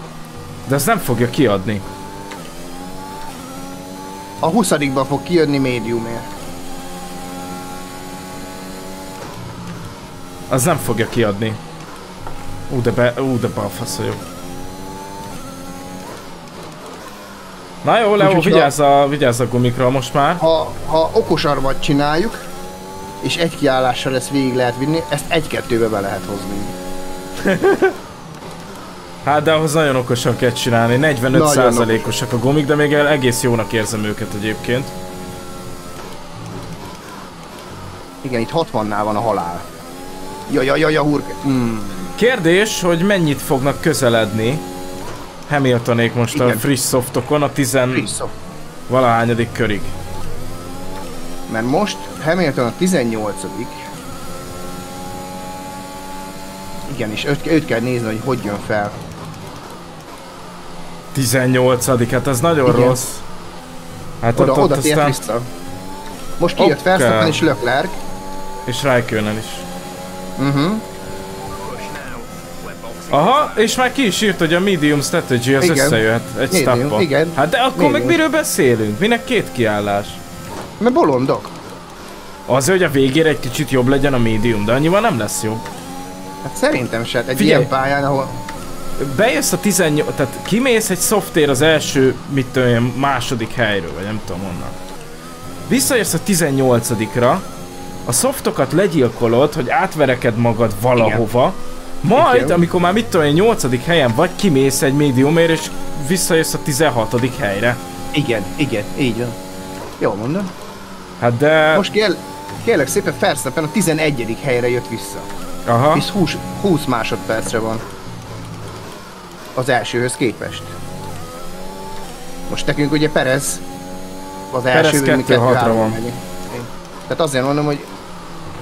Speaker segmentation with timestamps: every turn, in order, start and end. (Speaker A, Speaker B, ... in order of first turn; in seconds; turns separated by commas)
Speaker A: 0.7-1.8, Speaker B: 4.4-6.3, Speaker A: 10.5-11.6, Speaker A: 12.7-14.2, Speaker A: 17.8-20.4, Speaker B: 18.2-18.7, Speaker B: 20.4-22.4, Speaker B: 23.2-26.7, Speaker A: 27.4-27.9, Speaker A: 29.2-34.9, Speaker B: 31.3-32.1, Speaker B: 38.2-39.6, Speaker B: 40.5-42.1, Speaker A: 42.1-44.6, Speaker A: 45.5-48.1, Speaker B: 46.3-46.6, Speaker B: 47.9-48.4, Speaker A: 48.9-49.9, Speaker B: 51.5-53.9, Speaker B: 56.9-59.0, Speaker A: 61.1-63.2, Speaker B: 62.6-63.0, Speaker A: 64.2-65.2, Speaker B: 64.3-65.5, Speaker B: 66.4-67.9, Speaker A: 66.6-67.4, Speaker A: 68.7-69.7, Speaker B: 70.4-70.8, Speaker C: 71.6-73.7, Speaker A: 73.1-80.2, Speaker B: 75.6-76.0, Speaker B: 76.5-78.2, Speaker B: 80.8-81.5, Speaker A: 82.5-85.6, Speaker B: 86.4-88.4, Speaker A: 87.3-87.7, Speaker A: 89.0-94.8, Speaker A: 95.7-97.4, Speaker A: 98.0-107.8, Speaker B: 101.0-101.2, Speaker B: 102.1-102.6, Speaker B: 108.1-109.4, Speaker B: 110.0-110.5, Speaker A: 111.2-111.8, Speaker B: 111.7-115.3, Speaker A: 115.7-116.0, Speaker B: 115.9-117.8, Speaker B: 119.5-120.7, Speaker B: 122.5-123.6, Speaker B: 124.5-127.9, Speaker A: 124.7-126.0